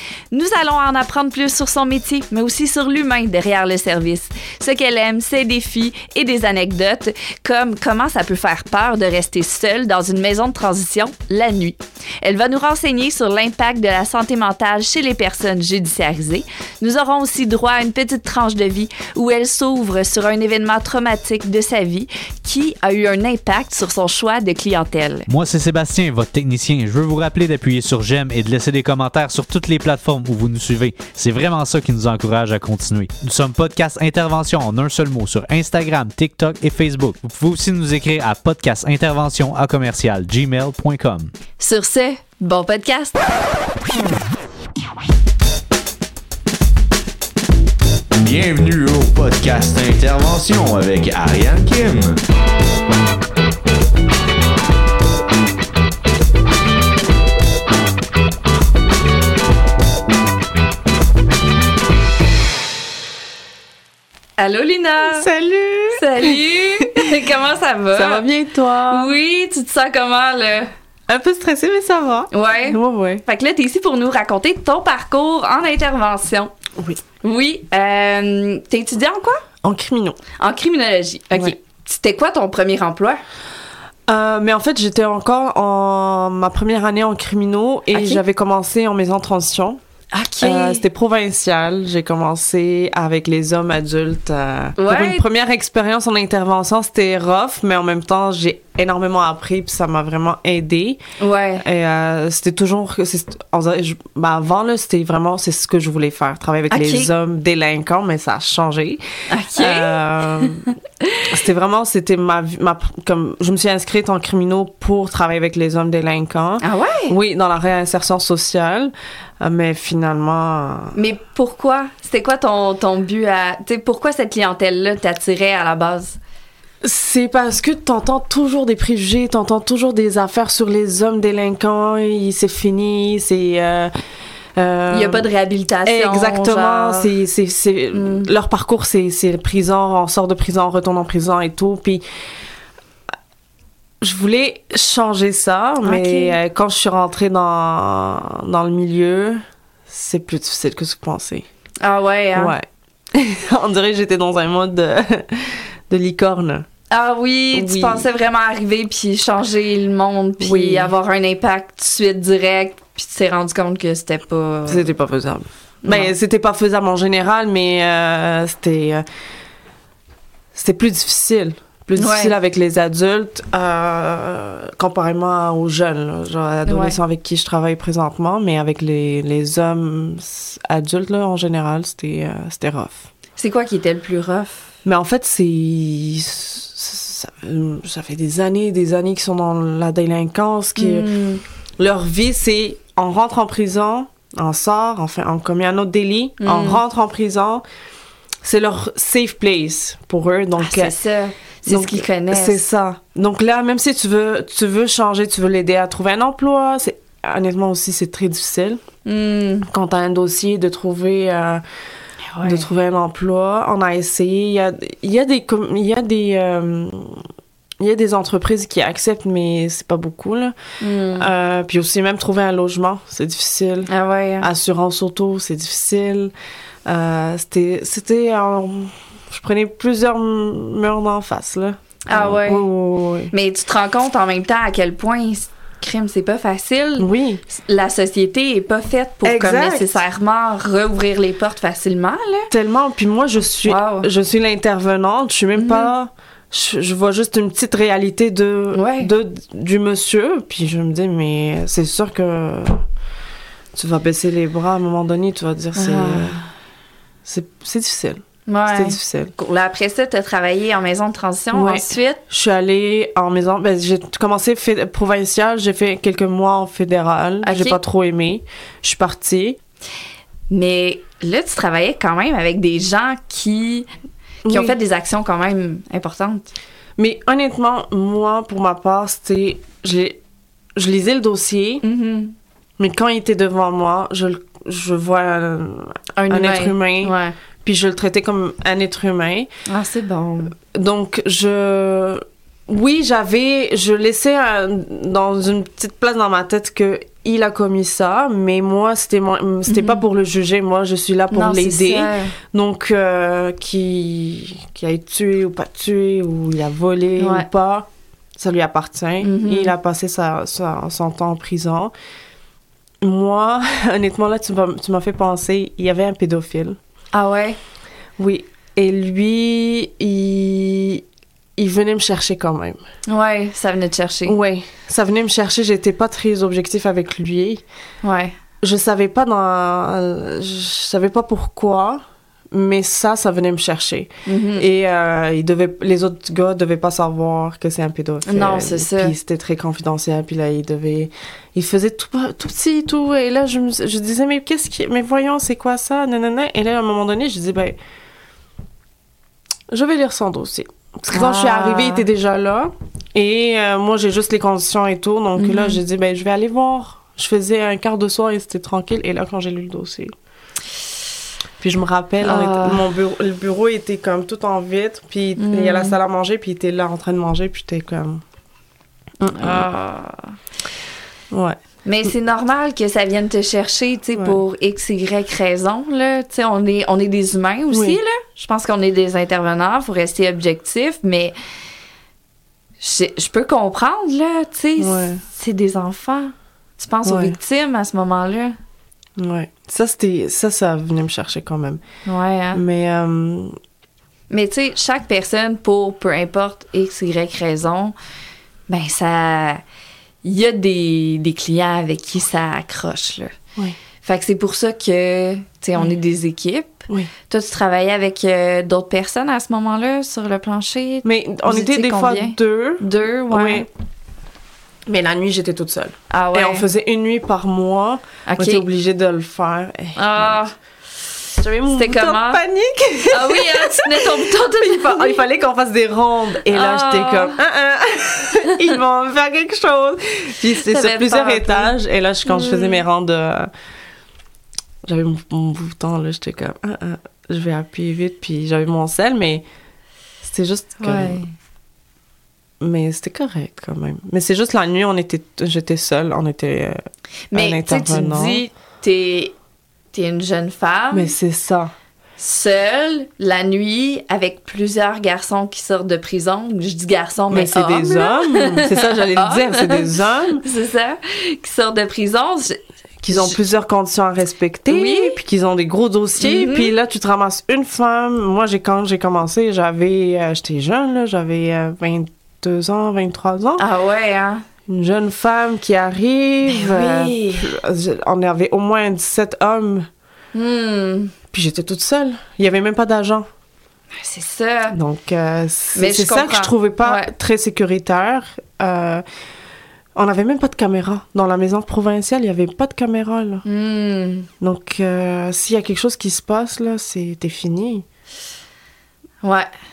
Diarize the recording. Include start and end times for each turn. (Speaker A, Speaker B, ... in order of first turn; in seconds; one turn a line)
Speaker A: 0.3-25.3
Speaker B: 25.3-41.3
Speaker A: 41.6-43.2
Speaker C: 48.2-52.2
Speaker A: 64.4-65.3
Speaker D: 65.1-67.1
Speaker A: 65.9-68.2
Speaker D: 67.9-69.1
Speaker A: 68.9-70.7
Speaker D: 71.1-73.2
Speaker A: 72.3-76.5
Speaker A: 77.2-79.4
Speaker D: 79.6-80.2
Speaker A: 80.4-83.2
Speaker D: 84.1-89.8
Speaker A: 87.9-88.2
Speaker A: 90.1-90.8
Speaker D: 90.4-101.0
Speaker A: 94.8-95.2
Speaker A: 101.2-101.6
Speaker D: 101.6-109.0
Speaker A: 106.7-107.1
Speaker A: 109.3-110.5
Speaker D: 109.6-110.7
Speaker D: 111.3-121.0
Speaker A: 116.6-117.1
Speaker A: 120.9-126.2
Speaker D: 126.8-133.9
Speaker D: 134.6-135.3
Speaker A: 134.9-137.1
Speaker D: 135.8-142.0
Speaker A: 137.9-138.3
Speaker D: 144.0-151.5
Speaker A: 145.8-146.4
Speaker A: 151.8-152.6
Speaker D: 152.4-156.7
Speaker A: 156.9-164.9
Speaker D: 157.5-158.1
Speaker D: 160.4-160.9
Speaker D: 164.7-169.1
Speaker A: 165.8-166.1
Speaker D: 170.5-183.1
Speaker A: 172.0-172.3
Speaker A: 176.7-177.0
Speaker A: 183.4-184.7
Speaker D: 184.8-191.1
Speaker A: 190.8-191.4
Speaker D: 191.8-197.6
Speaker A: 196.4-196.8
Speaker D: 198.4-200.9
Speaker A: 200.6-202.6
Speaker D: 201.7-208.8
Speaker A: 209.1-209.7
Speaker D: 209.7-211.6
Speaker A: 212.3-212.7
Speaker D: 212.4-217.2
Speaker D: 217.8-220.6
Speaker A: 220.8-221.3
Speaker D: 221.2-226.3
Speaker A: 223.9-224.5
Speaker D: 226.9-233.3
Speaker A: 232.1-232.7
Speaker A: 233.3-242.5
Speaker D: 237.0-237.4
Speaker D: 239.2-240.0
Speaker D: 242.5-252.8
Speaker A: 243.7-244.1
Speaker A: 245.6-245.9
Speaker A: 248.7-249.1
Speaker D: 253.7-256.4
Speaker A: 255.8-256.4
Speaker D: 257.2-259.3
Speaker A: 258.5-262.2
Speaker D: 261.5-269.6
Speaker A: 267.4-267.8
Speaker A: 270.5-273.9
Speaker D: 274.4-274.8
Speaker A: 274.5-276.5
Speaker D: 277.0-280.2
Speaker D: 280.8-281.8
Speaker A: 281.8-282.4
Speaker D: 282.8-289.5
Speaker A: 286.2-287.4
Speaker A: 289.7-290.5
Speaker D: 290.6-311.9
Speaker A: 299.7-300.0
Speaker A: 301.3-302.4
Speaker A: 307.2-307.5
Speaker A: 309.2-309.7
Speaker D: 313.0-316.8
Speaker A: 317.1-317.6
Speaker D: 318.2-321.0
Speaker D: 321.6-322.8
Speaker A: 323.1-324.4
Speaker D: 324.3-327.6
Speaker A: 328.0-328.4
Speaker D: 328.6-347.8
Speaker A: 334.3-334.7
Speaker A: 338.3-339.1
Speaker D: 349.7-360.1
Speaker A: 351.1-352.1
Speaker A: 355.4-355.8
Speaker D: 361.6-368.2
Speaker A: 362.2-362.8
Speaker A: 365.4-366.0
Speaker D: 369.2-369.7
Speaker A: 369.3-370.3
Speaker D: 371.3-372.1
Speaker A: 371.9-381.4
Speaker D: 374.1-374.4
Speaker D: 377.7-378.0
Speaker A: 382.8-388.6
Speaker D: 384.8-385.2
Speaker D: 387.1-387.4
Speaker D: 389.2-391.8
Speaker A: 392.1-392.6
Speaker D: 392.5-393.6
Speaker A: 394.3-397.9
Speaker A: 398.7-399.6
Speaker A: 400.2-403.4
Speaker A: 404.0-413.7
Speaker D: 411.0-413.7
Speaker D: 414.9-420.5
Speaker A: 416.1-416.7
Speaker A: 418.3-418.6
Speaker A: 420.0-420.6
Speaker D: 421.4-433.5
Speaker A: 421.6-422.4
Speaker A: 423.1-425.2
Speaker A: 426.5-427.3
Speaker A: 430.6-431.7
Speaker A: 432.3-432.8
Speaker D: 434.8-439.5
Speaker D: 440.2-441.2
Speaker A: 440.8-441.3
Speaker D: 442.6-446.8
Speaker A: 447.3-449.3
Speaker D: 447.3-448.4
Speaker A: 449.9-451.1
Speaker D: 450.9-451.7
Speaker A: 452.2-459.9
Speaker D: 457.3-460.4
Speaker A: 460.4-462.6
Speaker D: 463.0-473.6
Speaker A: 463.1-463.4
Speaker A: 464.7-465.2
Speaker A: 466.2-466.7
Speaker A: 473.6-474.4
Speaker D: 474.7-479.9
Speaker A: 476.5-477.5
Speaker A: 480.3-481.1
Speaker D: 481.3-483.3
Speaker A: 483.9-484.8
Speaker D: 484.7-489.0
Speaker A: 485.8-487.1
Speaker D: 489.9-493.4
Speaker A: 493.4-494.3
Speaker D: 494.4-497.9
Speaker A: 499.2-499.5